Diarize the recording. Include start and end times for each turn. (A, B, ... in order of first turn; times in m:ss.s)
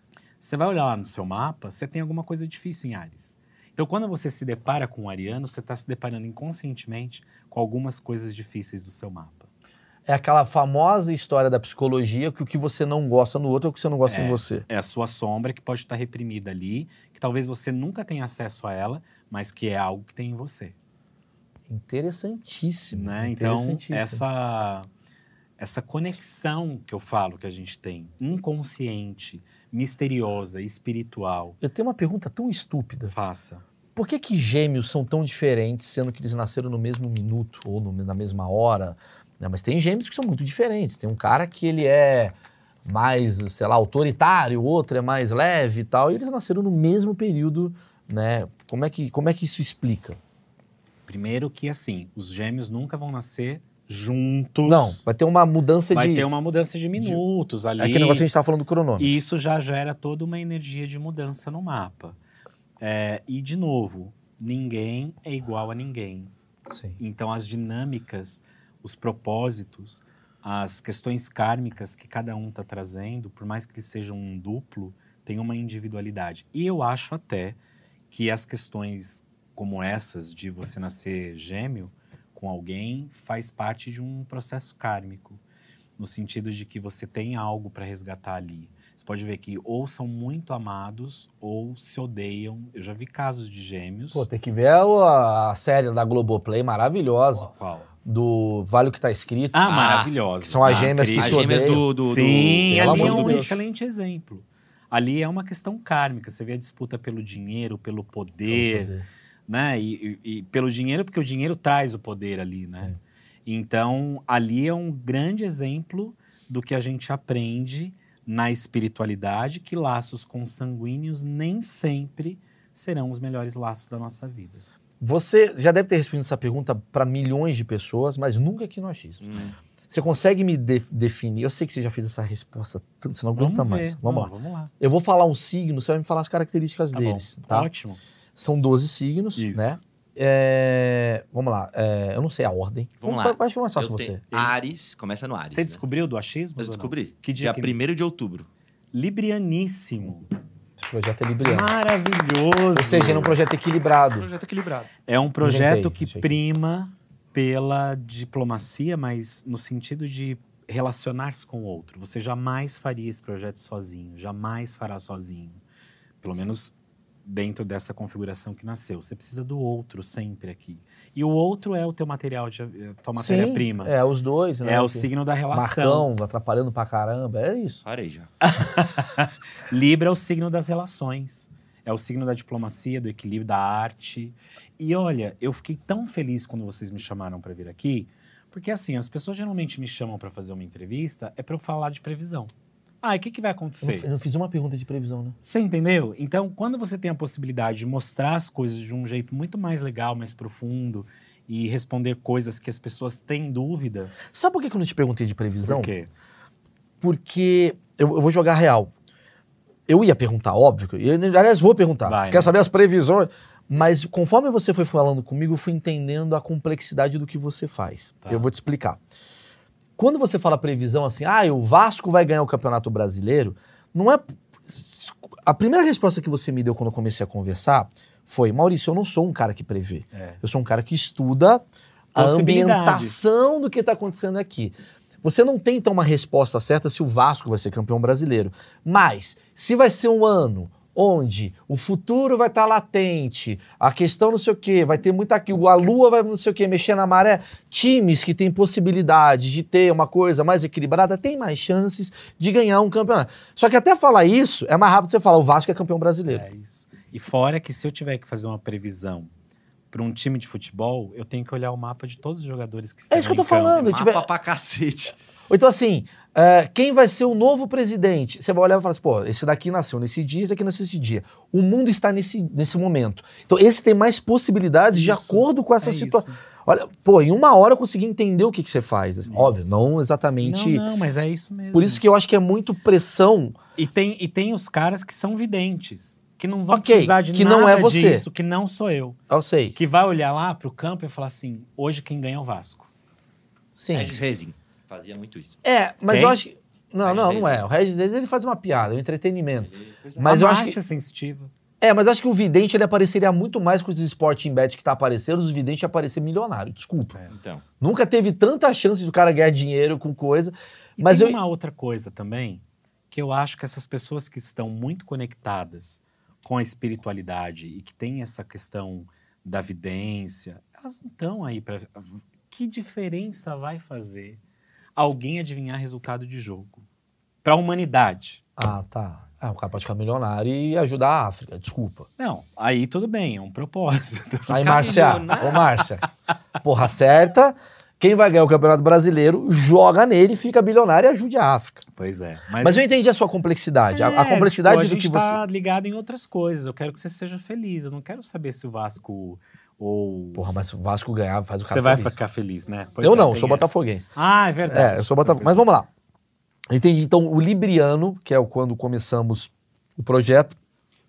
0:00.4-0:09.5 A
0:10.1-0:14.6 B
0:14.0-0:20.8 A
0:21.7-0:24.2 B
0:22.9-0:24.9 A
0:25.6-0:31.6 A
0:31.6-0:33.1 B
0:33.1-0:33.6 A
0:34.0-0:50.2 B
0:51.1-0:55.0 A
0:54.6-0:56.3 B
0:55.9-0:58.3 A
0:57.8-0:59.1 B
0:59.0-1:02.2 A
1:02.8-1:06.3 A
1:06.7-1:07.0 B
1:07.0-1:17.6 A
1:18.1-1:25.4 A
1:26.0-1:34.2 A
1:34.1-1:37.5 B
1:37.5-1:37.9 A
1:38.0-1:39.6 B
1:39.5-1:48.9 A
1:39.6-1:40.1 C
1:40.4-1:41.8 B
1:40.6-1:43.5 C
1:42.7-1:43.6 B
1:48.5-1:49.0 B
1:49.5-1:52.9 A
1:53.4-2:04.6 A
2:05.0-2:17.7 B
2:09.2-2:09.5 C
2:13.3-2:14.7 A
2:16.9-2:18.0 A
2:18.4-2:24.2 B
2:19.4-2:19.7 A
2:23.0-2:25.8 C
2:24.3-2:24.6 A
2:25.5-2:27.8 A
2:26.6-2:28.5 C
2:28.9-2:30.3 A
2:30.8-2:31.7 B
2:31.4-2:33.4 A
2:32.7-2:34.3 B
2:34.2-2:34.9 C
2:35.1-2:45.6 A
2:35.4-2:36.4 B
2:46.2-2:46.7 A
2:47.2-2:53.9 A
2:53.2-2:57.8 B
2:54.6-2:56.1 A
2:57.8-2:58.3 C
2:58.4-3:12.5 A
3:13.0-3:14.1 A
3:13.8-3:15.4 B
3:15.4-3:24.1 A
3:24.3-3:25.9 B
3:25.6-3:26.1 A
3:27.0-3:28.9 B
3:29.9-3:39.0 B
3:32.0-3:32.5 A
3:38.2-3:38.5 A
3:40.0-4:16.4 B
3:50.1-3:50.4 A
3:52.1-3:53.2 A
4:16.2-4:19.3 A
4:19.9-4:23.9 A
4:23.1-4:24.3 B
4:23.7-4:25.1 C
4:25.5-4:40.8 B
4:34.9-4:36.4 A
4:39.3-4:39.7 A
4:40.4-4:42.0 A
4:41.7-4:43.6 B
4:43.8-4:49.2 A
4:46.7-4:48.3 B
4:49.3-4:49.8 B
4:49.7-4:52.9 A
4:53.8-4:54.2 B
4:53.9-4:55.6 C
4:55.6-5:00.8 B
4:56.1-4:56.4 A
4:57.0-4:57.6 C
4:59.6-5:00.4 C
5:00.2-5:01.5 A
5:01.8-5:07.2 B
5:07.3-5:07.6 C
5:07.8-5:11.4 B
5:11.0-5:24.4 A
5:25.0-5:26.8 A
5:27.4-5:28.4 A
5:28.6-5:32.1 B
5:32.2-5:35.0 A
5:34.5-5:36.1 B
5:34.5-5:35.7 C
5:36.6-5:41.8 B
5:41.9-5:42.9 A
5:42.6-5:45.4 B
5:43.9-5:50.6 A
5:50.3-5:52.2 B
5:51.6-5:55.7 A
5:53.0-5:54.1 B
5:54.7-5:55.9 B
5:56.7-6:00.6 B